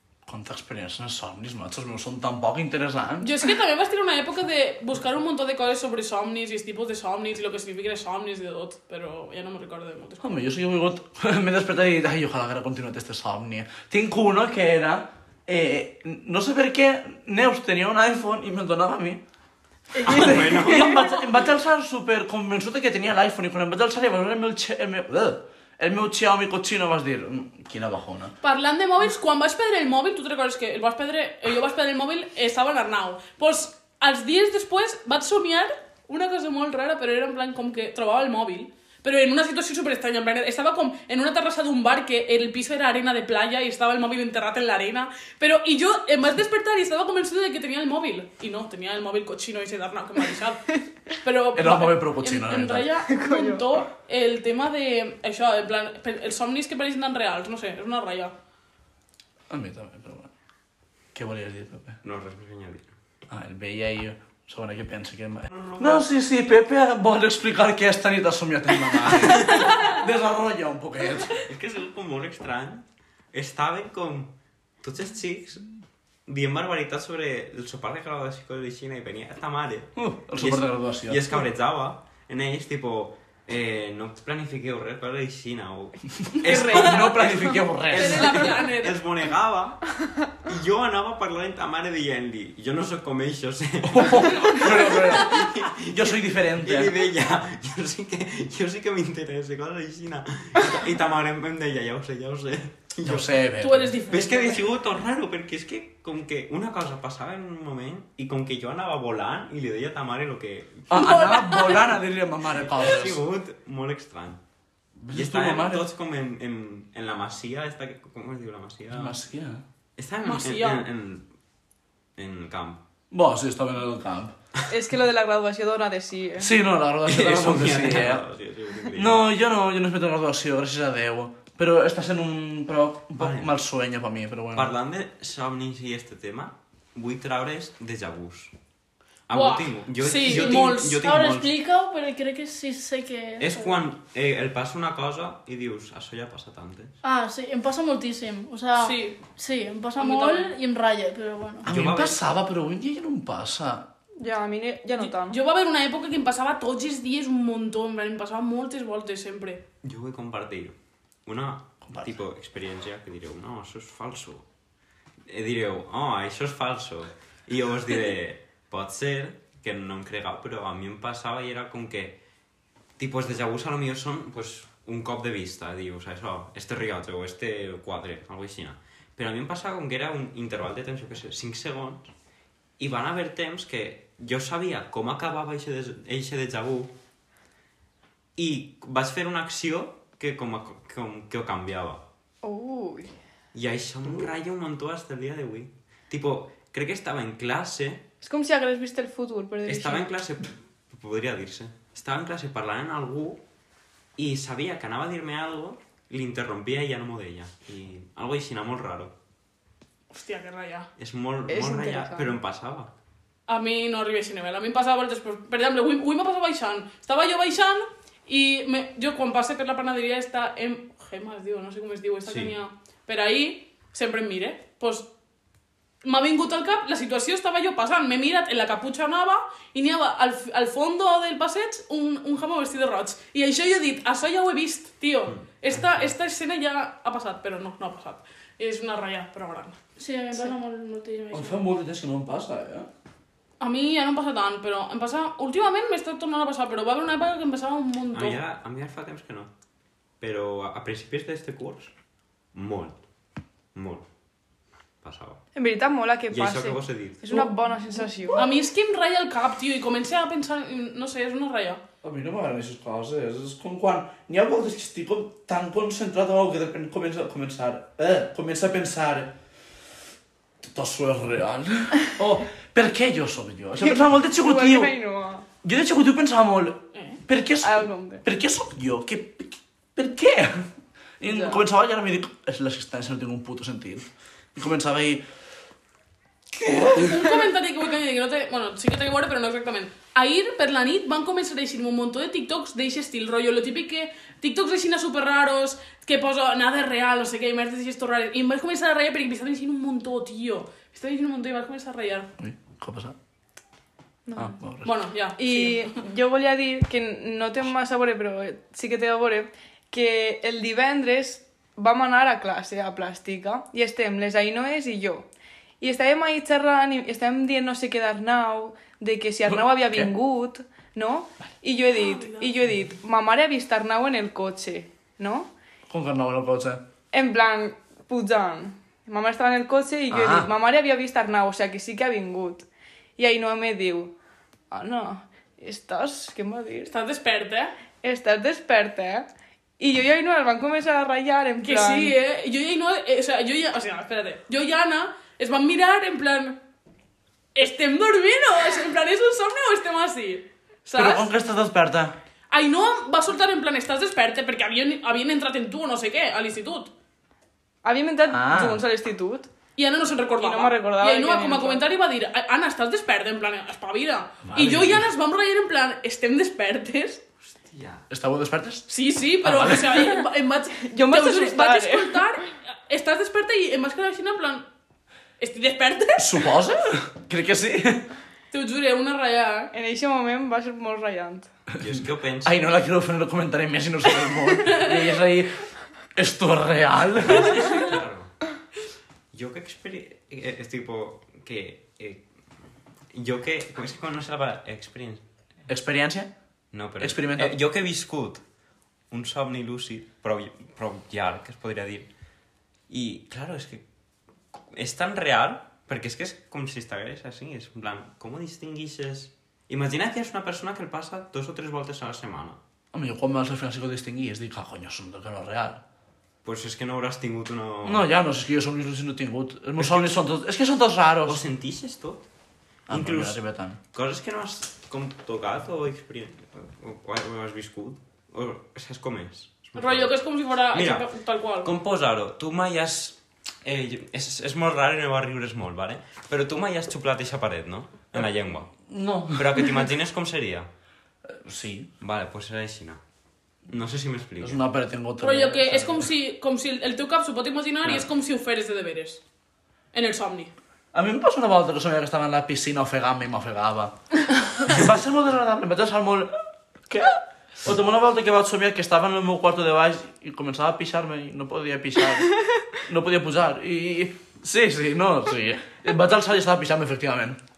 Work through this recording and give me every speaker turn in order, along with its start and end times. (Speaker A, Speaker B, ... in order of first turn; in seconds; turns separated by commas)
Speaker A: 0.3-3.3, Speaker B: 3.2-10.4, Speaker A: 10.2-19.2, Speaker C: 20.0-20.8, Speaker D: 20.0-21.2, Speaker A: 20.0-28.3, Speaker B: 28.4-58.3, Speaker A: 51.5-52.9, Speaker C: 53.1-53.8, Speaker A: 59.5-60.3, Speaker A: 61.1-62.0, Speaker D: 62.0-62.9, Speaker A: 63.3-71.4, Speaker D: 65.5-66.0, Speaker D: 69.1-69.8, Speaker D: 71.4-75.7, Speaker D: 76.3-103.4, Speaker A: 80.0-81.3, Speaker A: 86.3-88.5, Speaker C: 86.5-87.3, Speaker B: 86.5-87.2, Speaker B: 87.9-89.0, Speaker A: 93.8-97.0, Speaker A: 103.0-104.0, Speaker B: 103.6-104.7, Speaker D: 104.1-111.7, Speaker A: 110.9-113.2, Speaker E: 111.3-111.8, Speaker D: 112.6-114.4, Speaker A: 115.0-115.9, Speaker D: 115.1-119.2, Speaker A: 118.9-119.6, Speaker D: 120.0-121.3, Speaker B: 120.2-120.9, Speaker D: 122.2-122.8, Speaker A: 123.1-124.3, Speaker C: 124.7-126.5, Speaker A: 126.4-128.2, Speaker D: 127.1-129.3, Speaker A: 128.9-134.7, Speaker D: 133.2-133.5, Speaker D: 134.5-138.5, Speaker D: 139.3-141.6, Speaker B: 139.3-141.0, Speaker E: 140.3-143.8, Speaker D: 143.4-146.9, Speaker E: 147.0-151.7, Speaker B: 148.8-149.2, Speaker B: 150.0-150.5, Speaker A: 151.6-153.9, Speaker D: 151.7-152.2, Speaker C: 154.2-155.4, Speaker B: 155.0-159.6, Speaker D: 159.8-160.8, Speaker D: 161.3-164.4, Speaker A: 161.9-162.2, Speaker D: 165.3-172.2, Speaker D: 173.0-182.1, Speaker D: 182.8-186.9, Speaker D: 188.4-192.0, Speaker C: 192.4-193.1, Speaker D: 193.5-198.1, Speaker C: 198.2-200.1, Speaker D: 199.7-203.4, Speaker D: 204.2-209.1, Speaker B: 210.1-210.9, Speaker D: 211.0-212.9, Speaker C: 211.5-212.4, Speaker B: 213.5-225.1, Speaker D: 222.3-222.6, Speaker B: 226.0-239.8, Speaker D: 235.7-236.1, Speaker E: 240.0-241.6, Speaker A: 241.3-242.9, Speaker B: 243.6-248.4, Speaker D: 248.1-249.5, Speaker D: 250.2-251.9, Speaker D: 252.5-253.0, Speaker D: 253.7-254.1, Speaker D: 255.0-255.4, Speaker C: 255.6-258.4, Speaker D: 256.3-257.5, Speaker B: 258.4-261.8, Speaker A: 262.0-269.3, Speaker A: 270.6-274.9, Speaker C: 273.8-275.5, Speaker A: 275.6-280.7, Speaker B: 276.9-277.2, Speaker C: 277.6-278.2, Speaker A: 281.2-285.2, Speaker C: 281.2-281.6, Speaker A: 286.5-287.3, Speaker B: 286.9-302.3, Speaker A: 302.4-303.2, Speaker C: 304.3-304.6, Speaker A: 304.4-304.9, Speaker B: 304.8-305.9, Speaker C: 305.4-315.3, Speaker C: 315.8-325.5, Speaker A: 319.5-320.1, Speaker B: 321.9-322.6, Speaker A: 325.9-326.8, Speaker C: 327.1-332.7, Speaker A: 330.1-330.5, Speaker C: 333.2-334.1, Speaker C: 334.7-336.9, Speaker B: 336.9-337.7, Speaker C: 338.0-339.3, Speaker C: 339.8-342.2, Speaker B: 341.6-346.6, Speaker B: 347.6-351.3, Speaker A: 350.9-352.2, Speaker B: 352.5-356.9, Speaker C: 357.8-359.5, Speaker A: 358.3-358.8, Speaker B: 359.8-367.2, Speaker C: 360.4-361.8, Speaker A: 364.5-365.1, Speaker D: 367.5-368.0, Speaker A: 368.1-368.9, Speaker B: 368.9-374.6, Speaker A: 369.4-370.1, Speaker C: 370.9-372.2, Speaker B: 375.4-376.5, Speaker A: 376.2-378.1, Speaker B: 378.5-379.7, Speaker C: 379.7-381.5, Speaker D: 381.8-382.6, Speaker A: 381.8-387.8, Speaker D: 387.3-388.4, Speaker D: 389.3-392.2, Speaker D: 393.1-395.2, Speaker A: 395.7-396.3, Speaker D: 396.7-398.4, Speaker A: 397.0-397.6, Speaker D: 399.1-402.1, Speaker D: 402.9-403.8, Speaker D: 404.7-412.6, Speaker A: 412.9-415.8, Speaker D: 416.4-418.1, Speaker A: 417.9-421.4, Speaker D: 419.8-420.2, Speaker D: 421.2-422.2, Speaker A: 422.9-423.8, Speaker D: 422.9-423.4, Speaker D: 423.9-430.1, Speaker B: 429.8-431.7, Speaker D: 430.7-431.1, Speaker D: 431.6-438.7, Speaker A: 438.9-439.8, Speaker D: 439.3-440.7, Speaker A: 441.3-441.9, Speaker D: 442.0-443.0, Speaker D: 443.7-444.6, Speaker A: 444.4-446.1, Speaker B: 445.2-449.2, Speaker B: 449.9-450.5, Speaker A: 450.9-454.0, Speaker A: 454.5-456.3, Speaker A: 456.9-467.4